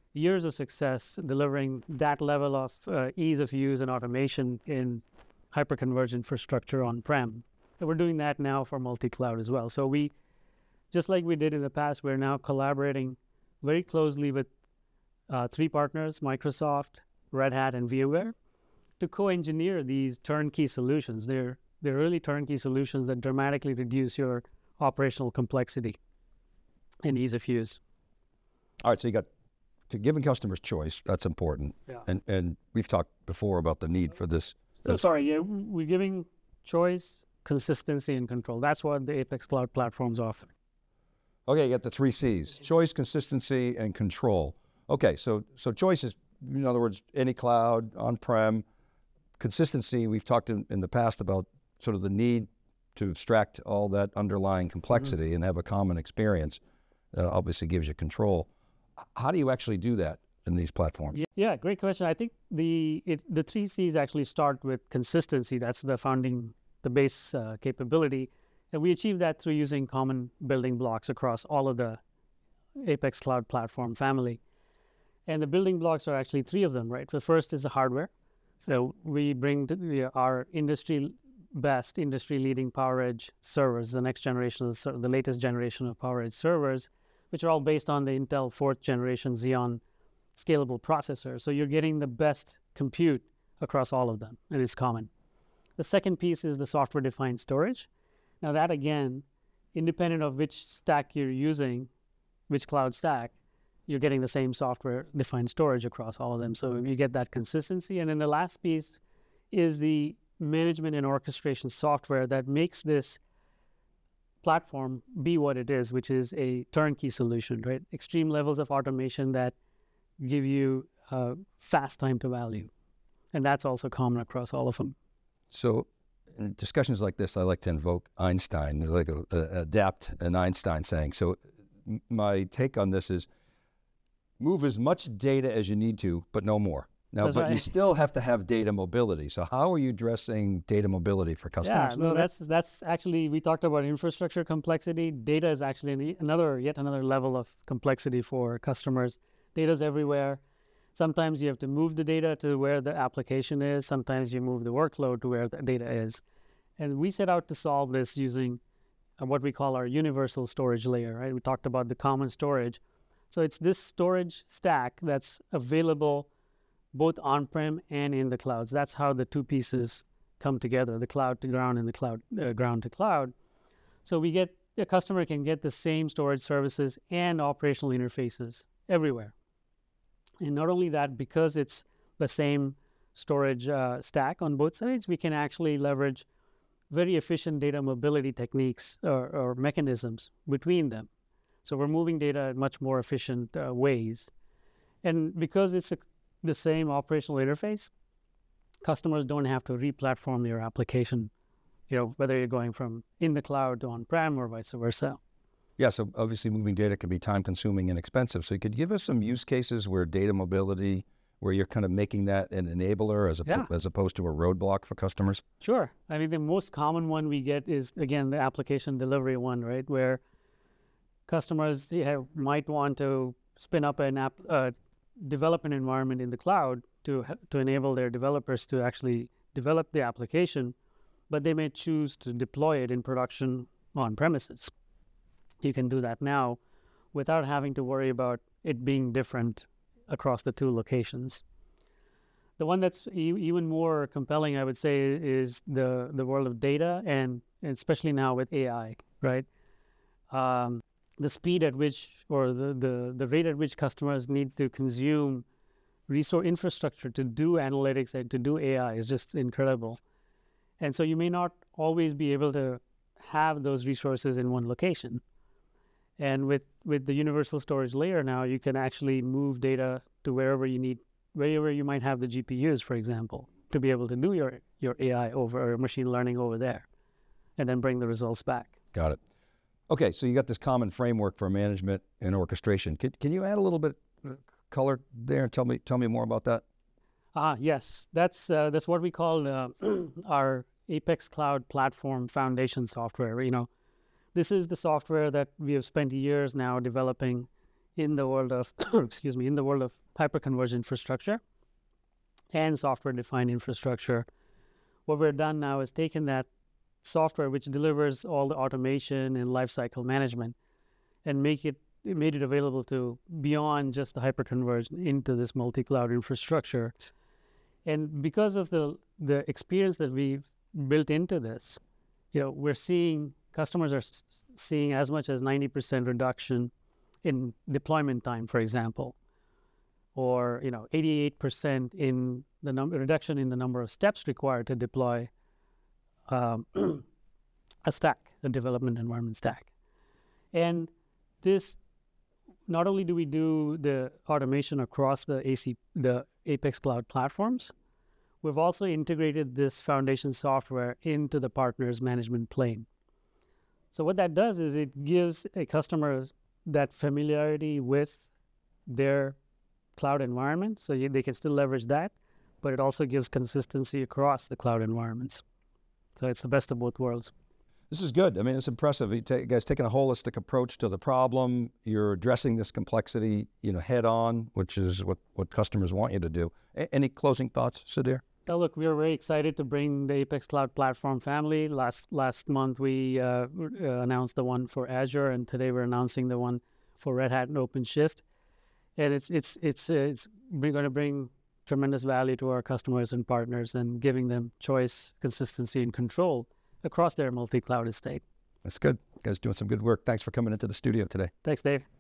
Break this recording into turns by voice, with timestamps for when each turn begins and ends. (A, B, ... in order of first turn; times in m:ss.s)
0:00.1-0:10.1 A
0:10.9-0:14.5 A
0:15.3-0:18.3 A
0:19.0-0:26.0 A
0:27.0-0:27.8 A
0:28.8-0:29.3 B
0:29.9-0:35.0 B
0:34.8-0:40.5 A
0:41.5-0:48.6 B
0:49.4-0:56.6 B
0:57.1-0:58.5 B
0:59.1-1:01.2 B
1:01.1-1:12.0 A
1:12.8-1:14.4 A
1:15.2-1:18.1 A
1:18.6-1:29.8 A
1:30.3-1:35.1 A
1:35.8-1:37.9 A
1:38.4-1:41.9 A
1:42.5-1:43.3 A
1:43.9-1:49.0 A
1:49.5-1:53.2 A
1:54.4-1:59.5 A
2:00.2-2:02.7 A
2:03.3-2:04.9 A
2:05.5-2:13.3 B
2:14.4-2:22.3 B
2:17.2-2:17.7 A
2:21.6-2:30.4 A
2:30.9-2:36.2 A
2:36.8-2:38.6 A
2:39.2-2:46.3 A
2:46.9-2:53.3 A
2:54.0-2:59.3 A
3:00.4-3:06.2 A
3:06.9-3:11.1 A
3:11.6-3:14.3 A
3:15.0-3:17.9 A
3:18.8-3:21.3 A
3:21.9-3:25.2 A
3:25.8-3:35.4 B
3:35.6-3:40.2 A
3:41.3-3:50.8 A
3:51.3-3:54.7 A
3:55.6-3:56.6 A
3:57.1-4:01.4 A
4:02.6-4:09.5 A
4:10.3-4:15.4 A
4:16.1-4:20.0 A
4:20.8-4:25.2 A
4:26.2-4:36.9 A
4:37.6-4:38.8 A
4:38.9-4:39.2 B
4:39.9-4:46.6 B
4:47.3-4:53.7 A
4:54.3-5:01.4 A
5:02.5-5:04.2 A
5:05.0-5:06.5 A
5:07.0-5:10.5 A
5:11.2-5:17.0 A
5:17.8-5:21.8 A
5:22.3-5:26.7 A
5:27.2-5:29.2 A
5:30.1-5:35.3 A
5:36.3-5:37.0 A
5:37.8-5:39.7 A
5:40.5-5:40.9 A
5:41.4-5:41.8 A
5:42.7-5:47.7 A
5:48.4-5:52.9 A
5:53.9-5:58.3 A
5:58.9-5:59.4 A
6:00.0-6:05.4 A
6:06.2-6:07.3 A
6:07.9-6:18.2 B
6:18.5-6:28.2 A
6:29.0-6:38.2 A
6:38.6-6:41.3 B
6:41.4-6:41.8 A